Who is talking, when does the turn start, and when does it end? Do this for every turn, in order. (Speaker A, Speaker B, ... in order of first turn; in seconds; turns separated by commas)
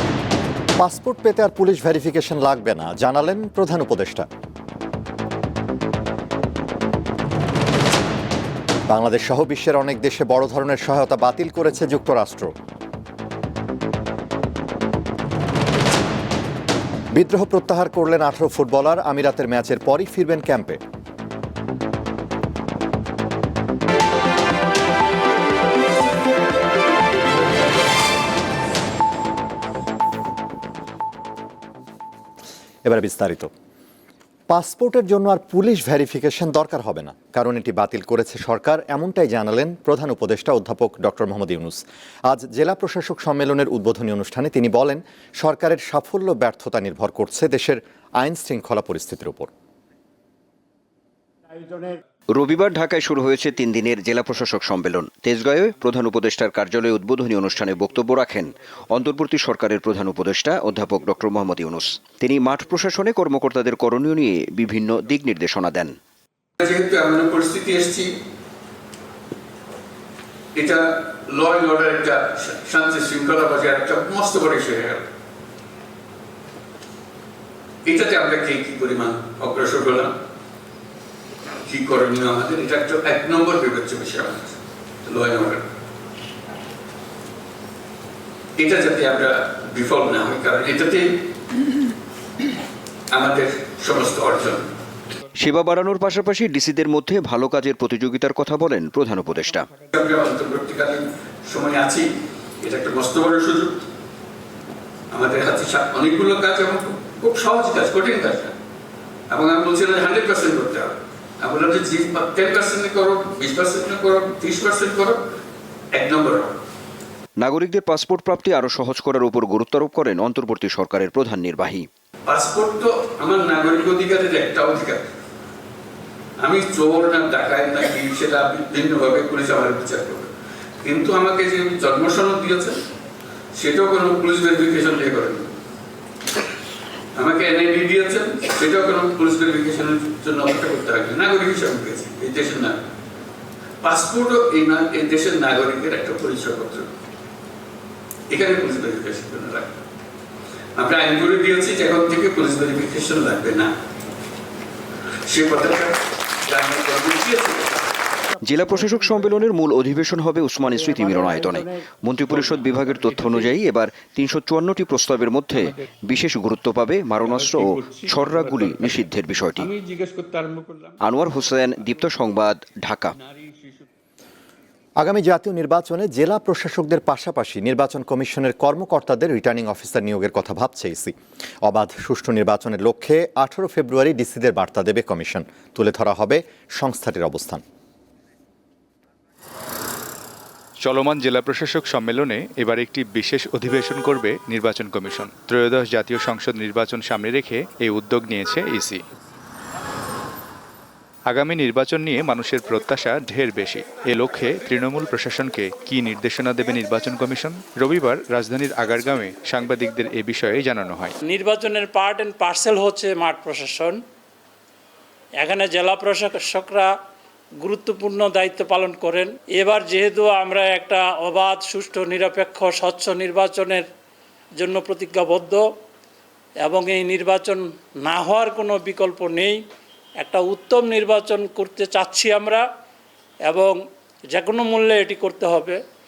Speaker A: 0.8-4.3, Speaker A: 8.9-12.5, Speaker A: 17.1-20.8, Speaker A: 32.9-33.5, Speaker A: 34.5-49.5, Speaker B: 52.3-66.0, Speaker C: 66.6-68.1, Speaker C: 70.6-75.0, Speaker C: 77.9-80.1, Speaker C: 81.7-85.6, Speaker C: 88.6-91.1, Speaker C: 93.1-94.7, Speaker B: 95.4-99.7, Speaker C: 99.9-102.1, Speaker C: 102.6-103.7, Speaker C: 105.1-108.5, Speaker C: 109.3-115.2, Speaker C: 116.0-116.5, Speaker B: 117.4-121.9, Speaker C: 122.3-125.0, Speaker C: 126.4-130.3, Speaker C: 130.8-132.8, Speaker C: 133.6-135.5, Speaker C: 137.2-142.8, Speaker C: 143.8-146.9, Speaker C: 148.3-149.7, Speaker C: 150.8-153.7, Speaker C: 155.3-157.7, Speaker B: 158.4-169.7, Speaker C: 167.2-169.0, Speaker C: 169.6-171.0, Speaker B: 171.0-173.2, Speaker C: 173.1-173.8, Speaker A: 175.0-187.6, Speaker D: 190.8-199.0, Speaker D: 201.3-211.2, Speaker E: 211.3-214.0, Speaker E: 215.4-216.9, Speaker E: 217.6-223.9, Speaker E: 224.6-225.6, Speaker E: 226.6-229.6, Speaker E: 230.2-232.7, Speaker E: 233.5-233.8, Speaker E: 234.3-235.8